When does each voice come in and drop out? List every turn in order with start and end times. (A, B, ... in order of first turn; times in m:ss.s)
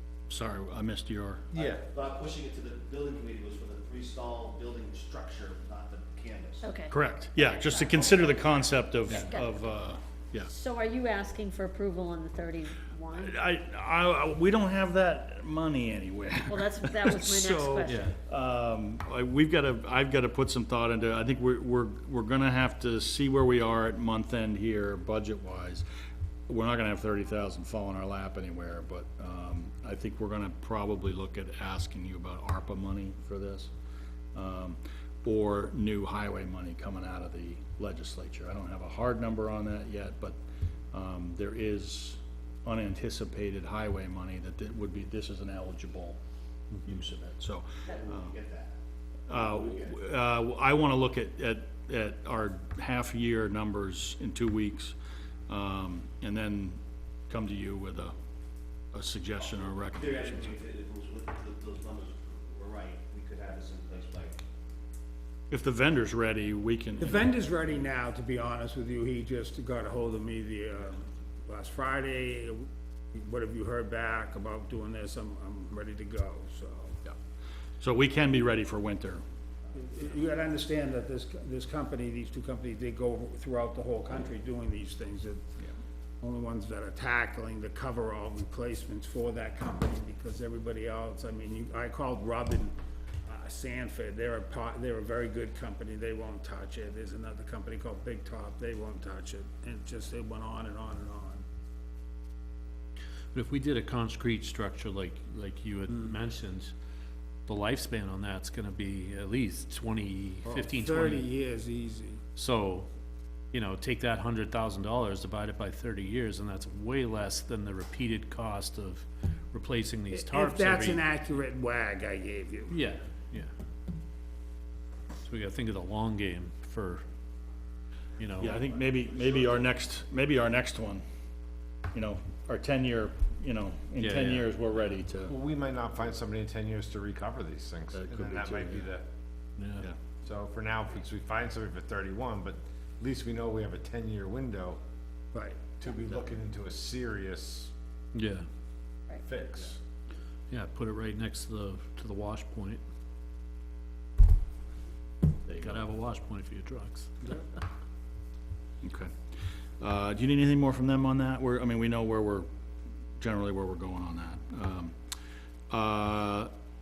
0:00.3-0:01.5 A
0:01.5-0:01.8 B
0:01.6-0:06.7 C
0:06.6-0:08.5 D
0:06.9-0:10.5 A
0:09.1-0:09.6 D
0:10.5-0:13.3 D
0:13.1-0:25.8 A
0:16.5-0:18.1 D
0:17.8-0:18.2 E
0:26.5-0:33.7 A
0:34.3-0:40.4 A
0:40.9-0:46.2 A
0:46.7-0:47.0 E
0:46.8-0:48.3 A
0:47.9-0:48.8 C
0:49.3-0:55.0 A
0:49.4-0:49.9 C
0:55.5-0:56.8 A
0:57.3-0:58.1 A
0:58.9-1:00.6 A
0:59.4-1:04.4 C
1:05.5-1:07.3 A
1:07.0-1:17.0 F
1:17.8-1:19.2 A
1:19.7-1:25.5 F
1:26.2-1:32.7 F
1:33.2-1:41.5 F
1:43.3-1:46.7 E
1:47.5-1:51.3 E
1:50.4-1:52.2 F
1:52.4-1:52.9 E
1:53.5-2:01.0 E
2:00.1-2:02.8 F
2:02.7-2:03.5 E
2:05.2-2:07.0 E
2:08.2-2:08.6 E
2:08.4-2:11.0 A
2:11.9-2:15.3 A
2:14.0-2:14.5 E
2:15.2-2:19.0 B
2:17.9-2:18.9 A
2:19.6-2:19.9 E
2:20.2-2:24.8 B
2:25.3-2:25.6 F
2:25.8-2:27.7 B
2:28.1-2:28.4 E
2:29.2-2:29.8 B
2:30.5-2:32.8 E
2:35.5-2:35.9 A
2:35.5-2:37.1 E
2:38.8-2:39.1 A
2:39.8-2:42.5 A
2:43.2-2:44.9 A
2:45.7-2:46.5 A